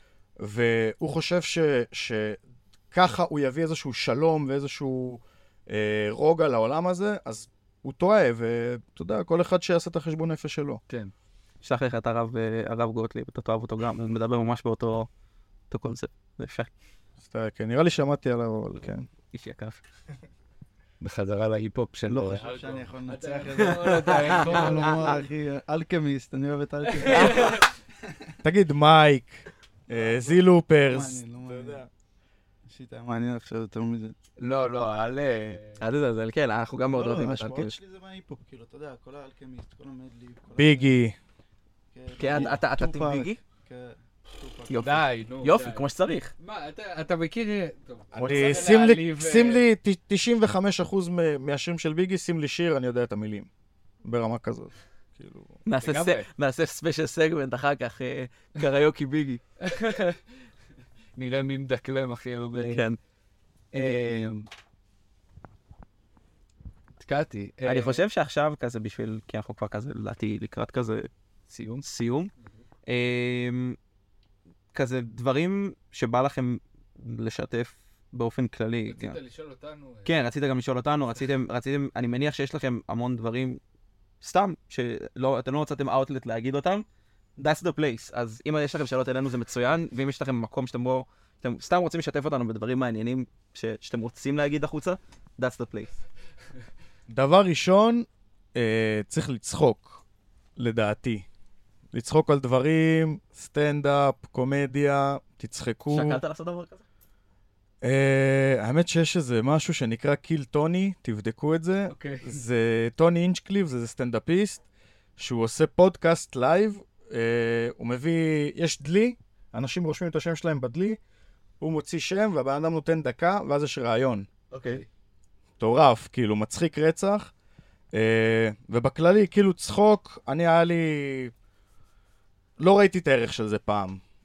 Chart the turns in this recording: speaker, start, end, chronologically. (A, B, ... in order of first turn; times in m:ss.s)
0:00.4-0:02.4 A
0:02.9-0:10.8 A
0:11.6-0:15.1 B
0:15.7-0:16.7 B
0:17.2-0:19.1 A
0:19.3-0:19.8 B
0:21.0-0:25.2 C
0:22.1-0:28.3 D
0:23.6-0:24.8 B
0:26.9-0:27.6 C
0:27.1-0:27.6 B
0:28.4-0:31.9 A
0:30.9-0:31.8 D
0:32.7-0:34.2 D
0:34.4-0:35.8 C
0:35.8-0:37.8 B
0:36.9-0:40.9 D
0:40.6-0:41.2 A
0:41.9-0:45.0 D
0:42.2-0:43.4 B
0:44.7-0:46.3 B
0:44.8-0:45.9 C
0:46.4-0:49.6 C
0:48.1-0:53.5 A
0:54.0-0:55.6 A
0:55.6-0:59.4 B
0:55.8-0:56.3 C
0:59.6-1:00.2 C
1:01.2-1:02.8 C
1:02.5-1:03.0 B
1:03.7-1:04.5 C
1:07.0-1:08.0 C
1:07.6-1:11.1 B
1:11.5-1:11.9 C
1:11.8-1:12.3 B
1:12.9-1:13.8 B
1:14.7-1:19.2 B
1:18.9-1:20.1 C
1:20.0-1:23.6 B
1:24.2-1:26.8 B
1:27.4-1:36.0 B
1:37.1-1:40.0 A
1:40.6-1:41.3 A
1:41.9-1:46.2 A
1:45.9-1:46.8 B
1:47.8-1:54.6 A
1:51.9-1:52.4 C
1:55.2-2:01.0 A
2:01.6-2:04.3 A
2:04.5-2:04.8 B
2:05.6-2:07.3 A
2:07.9-2:11.3 A
2:12.6-2:14.0 A